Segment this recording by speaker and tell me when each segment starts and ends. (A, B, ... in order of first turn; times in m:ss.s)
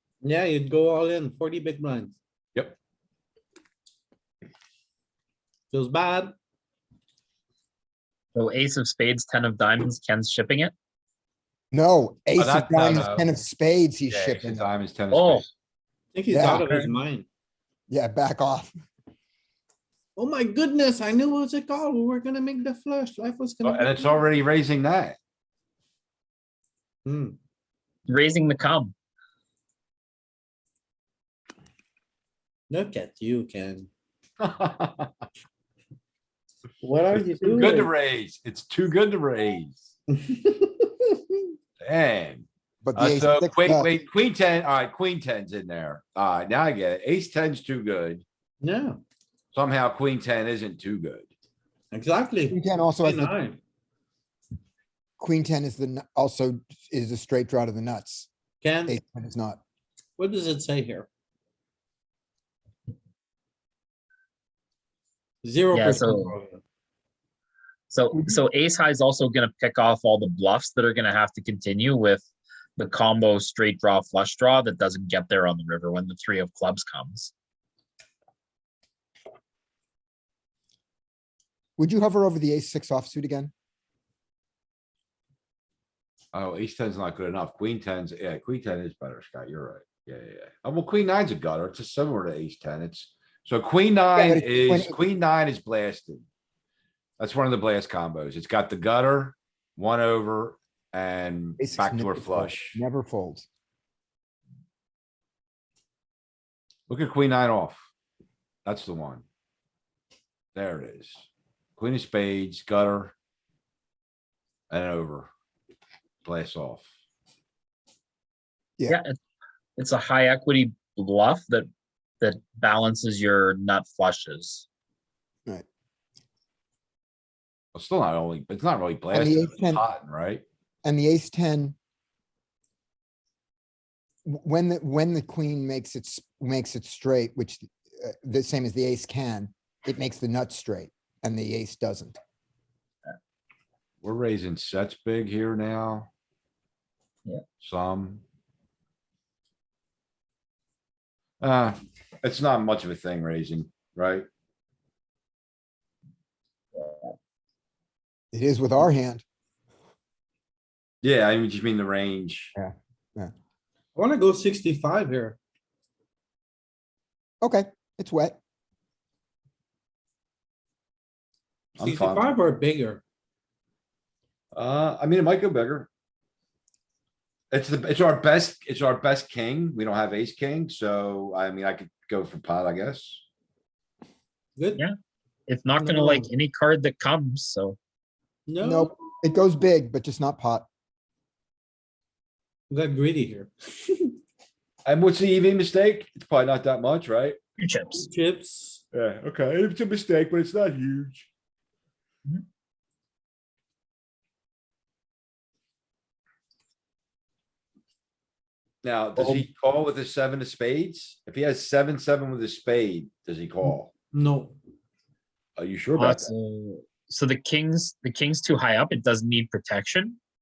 0:00.2-0:02.2 A
0:05.7-0:06.3 A
0:08.3-0:10.7 B
0:11.7-0:14.7 C
0:12.4-0:13.3 D
0:14.1-0:15.5 D
0:15.1-0:15.5 B
0:16.1-0:17.3 A
0:16.3-0:16.7 C
0:17.9-0:18.7 C
0:20.2-0:24.2 A
0:23.6-0:25.2 D
0:27.0-0:27.4 A
0:28.1-0:28.9 B
0:32.7-0:33.9 A
0:34.4-0:35.2 D
0:36.8-0:37.9 A
0:37.1-0:39.8 D
0:40.1-0:41.2 A
0:41.8-0:48.2 D
0:42.8-0:43.9 C
0:48.6-0:49.0 A
0:49.5-0:51.3 D
0:51.9-0:53.6 A
0:52.5-0:53.3 C
0:55.2-0:58.3 C
0:58.6-0:59.0 A
0:58.9-0:59.6 C
1:00.2-1:01.1 A
1:05.4-1:06.6 A
1:05.7-1:06.3 B
1:07.9-1:12.2 B
1:12.8-1:17.3 B
1:21.8-1:23.5 C
1:26.3-1:36.2 D
1:34.1-1:35.0 C
1:37.2-1:42.8 D
1:41.6-1:43.4 C
1:46.9-1:47.8 D
1:48.6-1:49.2 D
1:50.5-1:51.2 D
1:51.8-1:53.1 D
1:54.7-1:55.3 D
1:56.2-1:56.9 D
1:58.9-1:59.1 B
1:59.8-2:01.7 B
2:02.2-2:04.6 B
2:07.8-2:10.4 D
2:09.1-2:09.8 C
2:10.8-2:11.8 C
2:14.2-2:22.2 C
2:24.0-2:26.1 D
2:27.6-2:28.2 D
2:31.4-2:34.3 D
2:36.8-2:37.1 B
2:38.3-2:39.2 C
2:41.0-2:42.5 D
2:42.5-2:43.3 C
2:44.0-2:45.4 A
2:47.4-2:48.4 C
2:51.8-2:52.3 D
2:51.8-2:53.0 A
2:54.5-2:55.9 D
2:57.5-3:03.2 D
3:04.6-3:04.8 A
3:05.5-3:07.8 B
3:05.8-3:06.2 A
3:08.5-3:09.0 A
3:08.6-3:10.7 C
3:12.7-3:14.2 A
3:14.8-3:17.4 D
3:17.6-3:18.1 B
3:18.0-3:18.8 A
3:18.9-3:21.3 D
3:28.8-3:33.9 D
3:29.2-3:29.4 B
3:34.1-3:34.6 A
3:35.6-3:36.3 D
3:36.0-3:40.2 B